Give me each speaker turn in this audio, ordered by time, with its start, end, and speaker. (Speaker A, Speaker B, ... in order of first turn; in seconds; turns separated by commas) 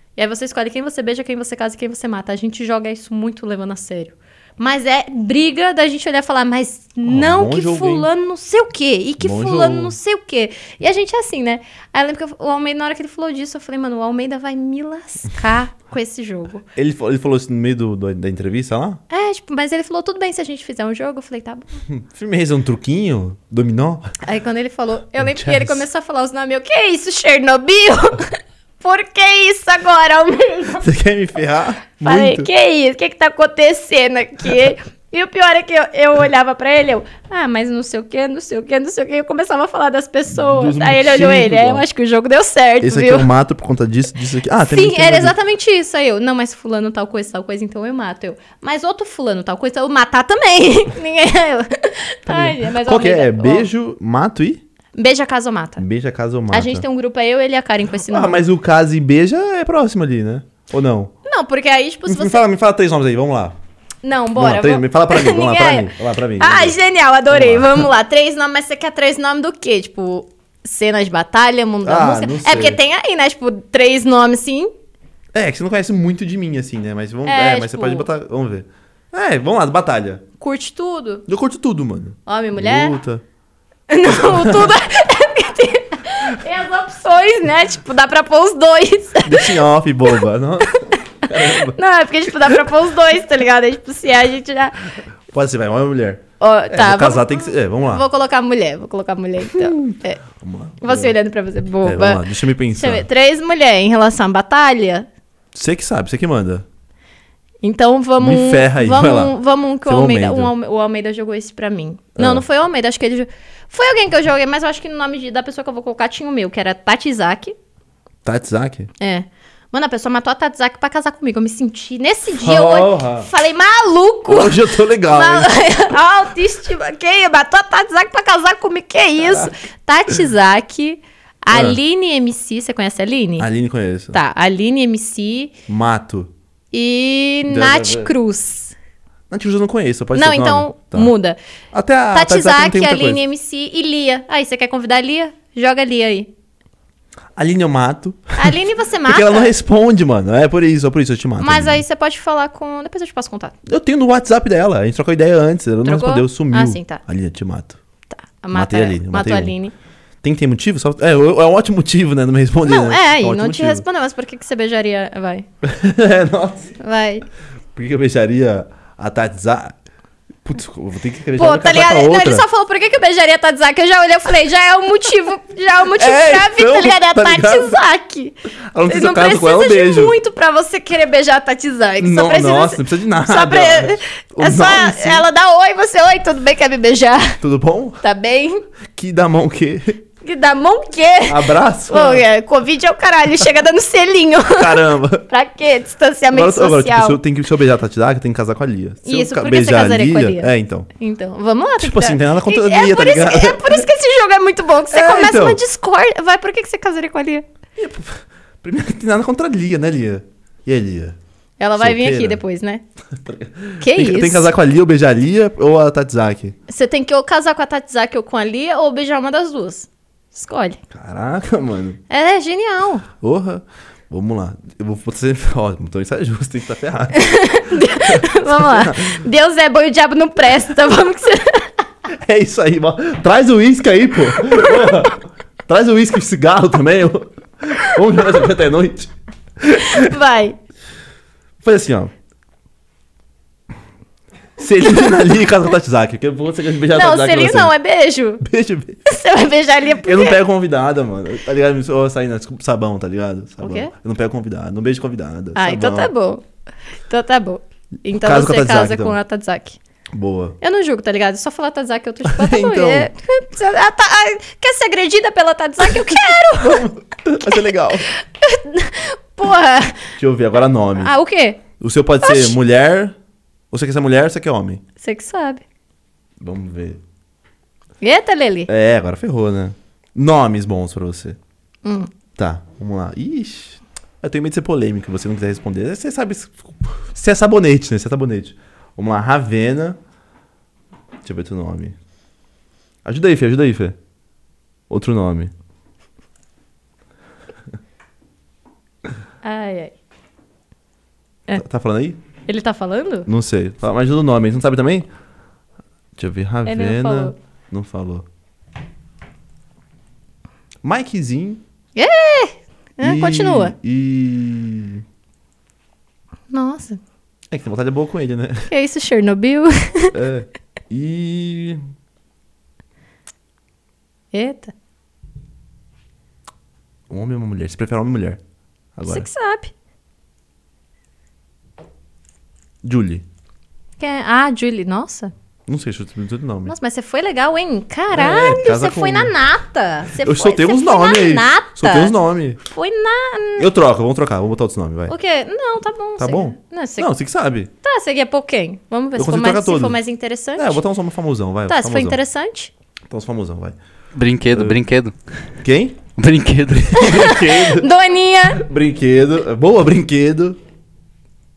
Speaker A: 0.2-16.7, Speaker B: 7.1-8.1, Speaker B: 9.2-10.0, Speaker B: 16.8-19.0, Speaker A: 19.1-21.8, Speaker B: 21.9-24.1, Speaker A: 24.2-30.9, Speaker B: 25.2-25.8, Speaker B: 30.8-32.5, Speaker A: 32.0-43.3, Speaker B: 40.3-41.8, Speaker B: 42.8-45.4, Speaker A: 44.6-53.7, Speaker B: 52.3-54.6, Speaker A: 55.0-55.8, Speaker B: 55.8-56.9, Speaker A: 56.5-58.4, Speaker B: 58.1-61.1, Speaker A: 61.2-62.4, Speaker B: 62.1-63.6, Speaker A: 64.0-74.7, Speaker B: 64.4-66.8, Speaker B: 67.3-67.9, Speaker B: 71.8-72.8, Speaker B: 75.3-80.2, Speaker A: 77.3-78.1, Speaker A: 80.4-81.3, Speaker B: 81.3-83.2, Speaker A: 82.3-83.0, Speaker A: 83.9-90.2, Speaker B: 84.1-84.7, Speaker B: 89.2-91.8, Speaker A: 90.9-94.9, Speaker B: 95.3-98.0, Speaker A: 96.4-100.2, Speaker B: 99.6-101.2, Speaker A: 100.8-105.1, Speaker B: 101.8-103.1, Speaker B: 105.5-106.7, Speaker A: 107.6-117.5, Speaker B: 108.2-110.5, Speaker B: 112.2-112.4, Speaker B: 118.2-118.9, Speaker A: 119.0-133.5, Speaker B: 122.4-123.3, Speaker B: 124.3-125.5, Speaker B: 129.2-129.5, Speaker B: 131.5-131.8, Speaker B: 133.4-134.2, Speaker A: 134.1-135.6, Speaker B: 135.7-136.3, Speaker A: 136.7-138.8, Speaker B: 137.5-138.1, Speaker B: 139.3-141.1, Speaker A: 140.2-141.4, Speaker B: 141.7-143.2, Speaker A: 142.1-146.3, Speaker B: 147.4-148.5, Speaker A: 148.4-149.5, Speaker B: 149.1-151.8, Speaker A: 151.4-153.6, Speaker B: 153.7-157.8, Speaker A: 155.8-157.0, Speaker A: 158.1-159.7, Speaker B: 158.5-159.6, Speaker B: 160.2-163.8, Speaker A: 162.6-165.5, Speaker B: 165.6-166.8, Speaker A: 166.8-167.3, Speaker B: 167.8-169.8, Speaker B: 170.5-172.5, Speaker A: 171.4-187.4, Speaker B: 175.9-177.8, Speaker B: 178.7-180.2, Speaker B: 182.0-185.3, Speaker B: 187.4-188.0, Speaker A: 188.0-188.6, Speaker B: 188.9-190.0, Speaker A: 190.2-197.2, Speaker B: 191.3-192.3, Speaker B: 194.5-195.3, Speaker B: 196.3-200.9, Speaker A: 199.0-207.5, Speaker B: 201.8-203.8, Speaker B: 204.9-205.6, Speaker B: 207.8-211.2, Speaker A: 211.6-212.8, Speaker B: 211.8-212.4, Speaker B: 213.2-216.6, Speaker A: 213.8-214.5, Speaker A: 216.7-220.8, Speaker B: 220.9-222.0, Speaker A: 222.1-223.1, Speaker B: 223.2-227.3, Speaker A: 227.1-231.8, Speaker B: 228.1-229.2, Speaker B: 232.1-240.1, Speaker A: 234.5-235.1, Speaker A: 239.8-240.6, Speaker B: 241.6-242.1, Speaker B: 244.6-247.7, Speaker A: 246.9-248.4, Speaker B: 248.4-249.1, Speaker A: 249.1-250.4, Speaker B: 250.0-256.1, Speaker A: 253.6-253.9, Speaker A: 255.6-256.4, Speaker A: 257.1-259.8, Speaker B: 258.1-259.2, Speaker B: 260.1-260.6, Speaker A: 260.6-266.9, Speaker B: 262.2-263.1, Speaker B: 266.6-268.1, Speaker A: 268.1-270.1, Speaker B: 270.2-271.1, Speaker A: 271.0-271.6, Speaker B: 271.8-273.1, Speaker A: 272.2-272.6, Speaker B: 273.7-274.8, Speaker A: 275.0-275.6, Speaker B: 276.4-277.0, Speaker A: 278.0-278.7, Speaker B: 278.7-281.4, Speaker A: 281.8-282.1, Speaker B: 282.4-290.0, Speaker B: 291.2-292.0, Speaker B: 293.1-294.0, Speaker B: 294.9-295.5, Speaker A: 299.4-299.9, Speaker B: 301.5-302.2, Speaker A: 302.5-303.3, Speaker B: 303.3-305.1, Speaker B: 306.2-308.2, Speaker A: 306.6-307.4, Speaker B: 310.8-311.6, Speaker A: 311.9-313.8, Speaker B: 313.0-315.0, Speaker A: 316.5-317.0, Speaker B: 317.5-318.7, Speaker A: 318.7-320.1, Speaker B: 320.1-321.8, Speaker A: 324.3-324.7, Speaker B: 327.1-328.4, Speaker B: 329.0-329.3, Speaker A: 329.1-329.7, Speaker B: 332.8-333.2, Speaker A: 334.0-335.3, Speaker B: 335.7-336.7, Speaker A: 336.7-343.7, Speaker B: 338.1-339.3, Speaker B: 340.2-342.6, Speaker B: 343.6-345.1, Speaker A: 345.1-347.1, Speaker B: 346.2-347.7, Speaker A: 347.8-350.8, Speaker B: 349.2-350.0, Speaker B: 350.6-352.2, Speaker A: 351.7-352.7, Speaker B: 353.1-353.8, Speaker C: 354.1-355.2, Speaker B: 354.5-354.8, Speaker B: 355.6-356.0, Speaker C: 356.2-357.1, Speaker B: 356.8-357.9, Speaker A: 357.0-358.7, Speaker B: 358.6-360.6